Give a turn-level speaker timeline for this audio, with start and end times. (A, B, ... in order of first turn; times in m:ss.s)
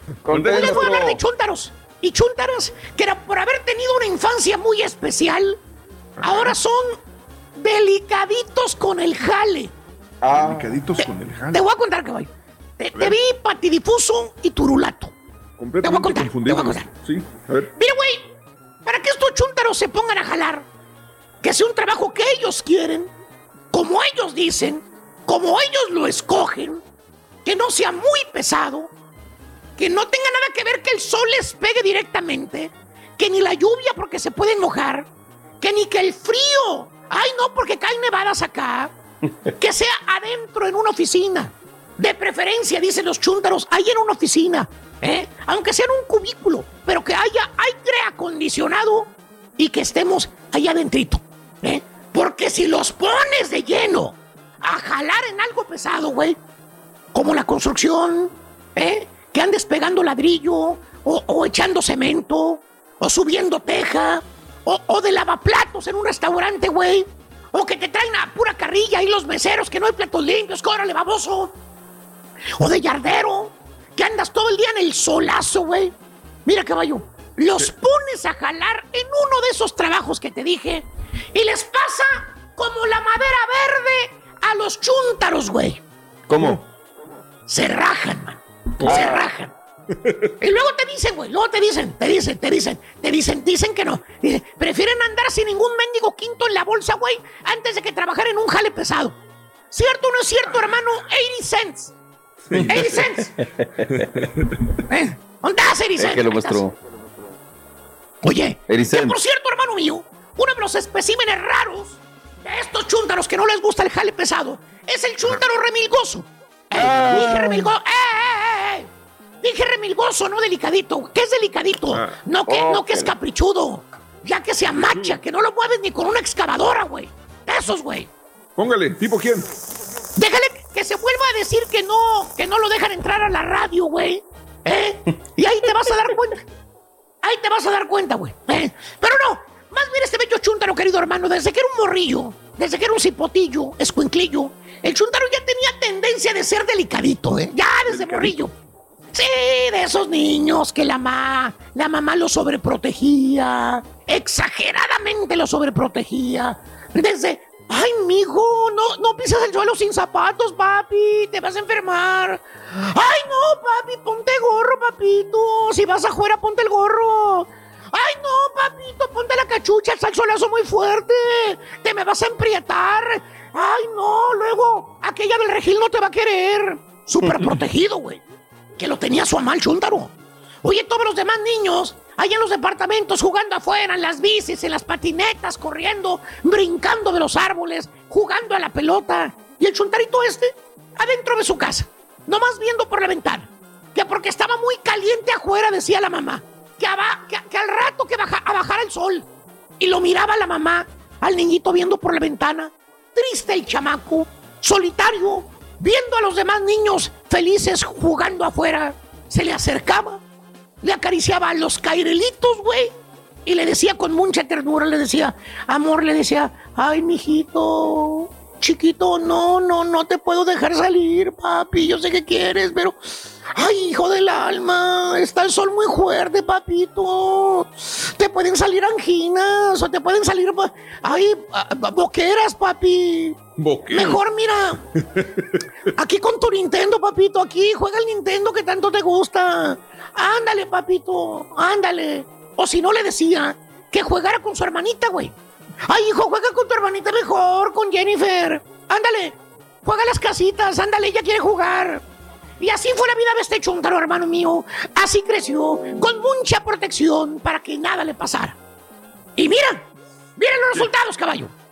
0:00.2-0:01.2 A
0:00.3-0:01.1 B
0:00.5-0:05.6 C
0:06.2-0:06.5 B
0:06.2-0:07.0 C
0:07.6-0:09.7 C
0:10.2-0:10.8 A
0:10.3-0:11.6 B
0:11.5-0:15.1 C
0:15.6-0:17.7 B
0:15.8-0:16.9 C
0:17.8-0:18.3 C
0:18.8-0:20.6 C
0:21.4-0:23.1 C
0:23.7-0:26.8 C
0:27.4-0:28.9 C
0:29.8-0:35.1 C
0:35.6-0:38.9 C
0:39.6-0:56.4 C
0:57.1-1:11.5 C
1:12.6-1:15.9 C
1:16.5-1:25.8 C
1:26.3-1:26.6 A
1:27.5-1:29.5 C
1:28.8-1:29.2 A
1:30.4-1:39.2 C
1:39.7-1:41.9 C
1:42.5-1:42.9 B
1:42.5-1:44.1 A
1:42.7-1:43.3 C
1:44.0-1:44.6 B
1:44.9-1:46.6 C
1:46.0-1:46.8 A
1:48.2-1:58.9 C
1:48.7-1:49.2 A
1:56.8-1:57.6 A
1:56.8-1:57.5 B
1:59.4-2:08.1 C
2:01.9-2:02.2 B
2:02.5-2:03.1 A
2:04.9-2:05.2 B
2:08.6-2:09.5 B
2:10.2-2:16.4 C
2:17.2-2:28.5 C
2:27.9-2:28.3 B
2:29.1-2:58.2 C
2:58.8-3:00.1 C
3:00.6-3:19.3 C
3:19.8-3:30.2 C
3:30.8-3:32.9 C
3:33.4-3:43.0 C
3:43.5-3:54.8 C
3:53.6-3:54.2 B
3:55.1-3:55.4 B
3:55.9-4:05.3 C
4:05.8-4:12.0 C
4:12.6-4:18.6 C
4:19.4-4:19.8 C
4:20.4-4:21.5 C